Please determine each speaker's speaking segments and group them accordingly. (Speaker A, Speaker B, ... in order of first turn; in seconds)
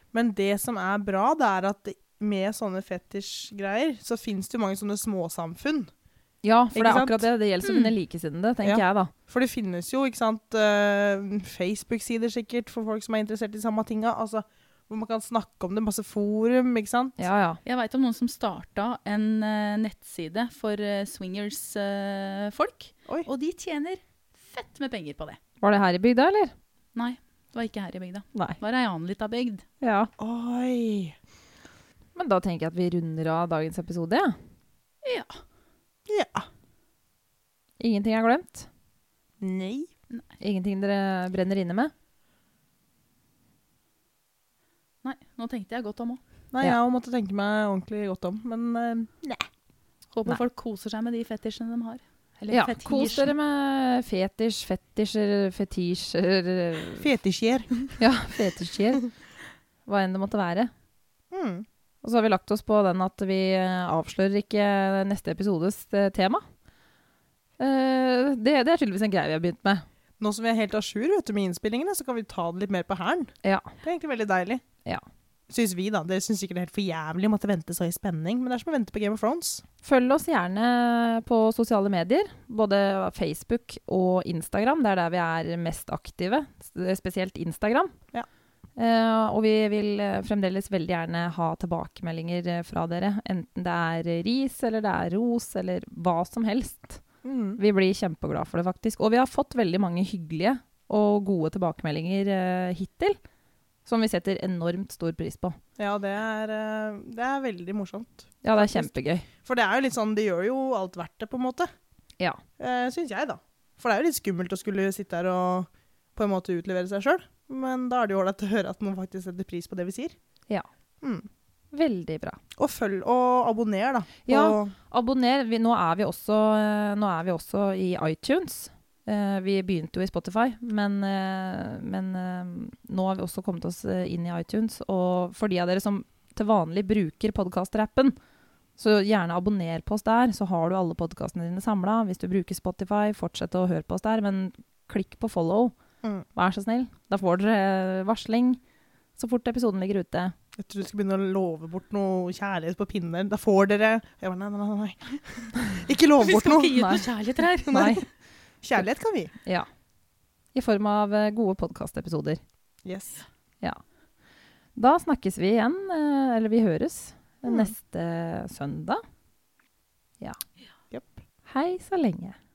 Speaker A: 0.1-5.9, 6.7-7.3, 8.6-17.2, 30.2-31.1, 36.1-36.5, 39.4-39.9, 46.5-49.5, 57.0-57.9, 61.3-61.6, 70.2-74.6, 75.5-79.6, 97.2-97.6, 105.8-111.7, 112.6-120.2, 121.0-121.3, 122.6-124.8, 150.6-156.9, 157.7-158.0, 158.6-159.3, 162.8-163.2, 167.4-167.7
Speaker B: 6.4-9.1, 17.2-17.6, 25.6-26.5, 29.8-30.1, 32.2-34.4, 37.8-38.7, 40.4-41.9, 52.5-57.1, 58.0-59.1, 59.9-60.7, 62.0-66.5, 67.6-69.8, 73.4-73.7, 79.8-88.0, 88.8-97.0, 97.6-103.2, 103.9-105.6, 108.4-109.3, 121.7-122.4, 124.3-138.2, 138.8-145.8, 146.3-148.6, 149.2-150.3, 156.8-157.0, 157.7-158.1, 160.5-162.4, 164.8-169.0, 171.5-172.4
Speaker C: 7.6-7.9, 17.6-25.4, 26.9-29.6, 35.0-35.4, 45.0-46.2, 50.1-53.3, 156.2-157.9